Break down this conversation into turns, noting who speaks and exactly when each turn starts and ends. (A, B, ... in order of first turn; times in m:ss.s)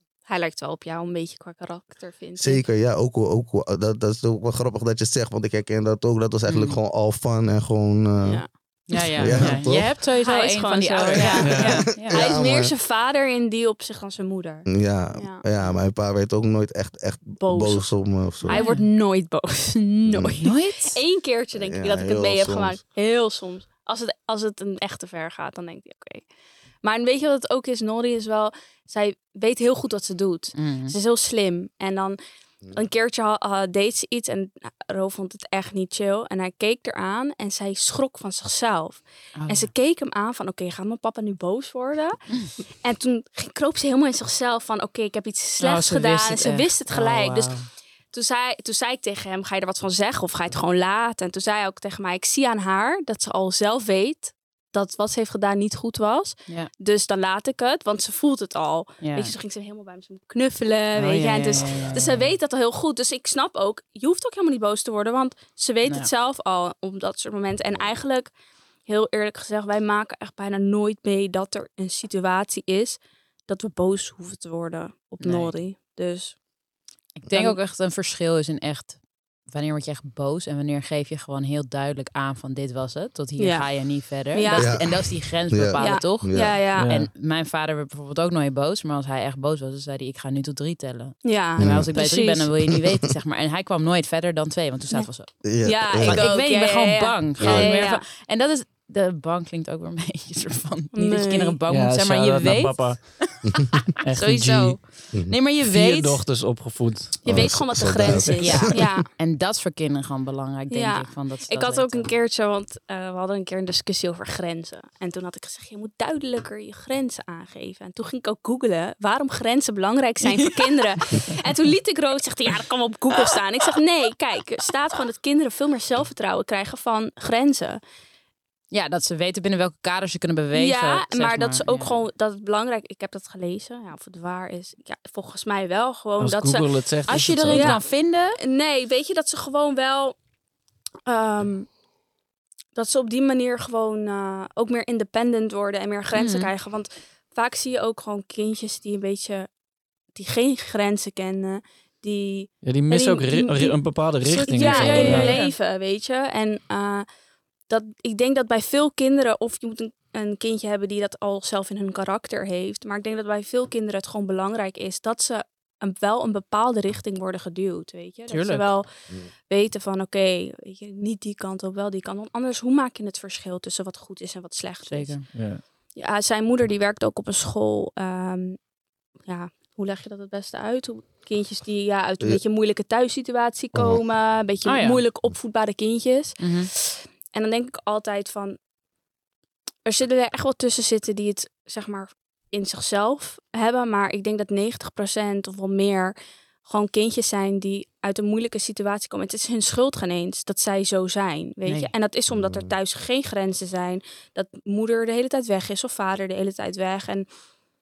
0:00.3-0:02.6 A
0:02.4-0:09.9 B
0:06.5-0:06.8 C
0:08.2-0:08.5 A
0:08.9-0:12.2 C
0:09.2-0:09.6 D
0:09.7-0:15.4 A
0:11.4-0:11.9 D
0:11.6-0:12.7 B
0:14.7-0:18.6 B
0:17.4-0:26.3 A
0:18.5-0:18.8 C
0:20.1-0:20.3 B
0:20.4-0:21.0 C
0:21.6-0:22.8 B
0:26.8-0:32.2 A
0:30.6-0:31.0 C
0:32.7-1:08.3 A
0:39.4-0:39.7 C
0:45.6-0:47.7 C
0:59.0-0:59.3 C
1:01.0-1:02.2 C
1:08.9-1:16.4 A
1:15.2-1:15.5 C
1:17.2-1:43.5 C
1:17.3-1:17.6 A
1:23.4-1:24.8 A
1:24.5-1:26.6 B
1:25.8-1:26.9 A
1:26.8-1:27.1 D
1:31.2-1:32.5 A
1:31.6-1:31.9 B
1:35.4-1:36.2 B
1:35.6-1:38.1 A
1:37.4-1:37.7 B
1:40.9-1:41.6 A
1:41.7-1:43.5 D
1:44.0-1:45.0 D
1:44.1-1:46.2 C
1:45.6-1:47.4 D
1:47.2-1:48.7 B
1:47.3-1:49.1 A
1:48.4-1:52.1 C
1:50.7-2:07.8 A
2:08.7-2:12.0 C
2:10.5-2:16.8 A
2:16.2-2:17.8 D
2:17.1-2:18.4 C
2:17.5-2:20.2 A
2:21.1-2:21.8 A
2:22.8-2:29.5 A
2:26.1-2:26.5 C
2:30.1-2:37.1 A
2:32.6-2:35.4 D
2:34.6-2:35.6 C
2:37.7-2:48.9 A
2:48.3-2:48.7 C
2:49.5-2:55.4 A
2:54.9-2:55.3 C
2:55.3-2:55.6 D
2:56.0-2:58.6 A
2:59.2-3:08.6 A
3:03.7-3:04.0 B
3:04.6-3:05.0 C
3:06.4-3:06.7 C
3:09.8-3:27.3 A
3:21.6-3:21.9 C
3:22.3-3:22.8 B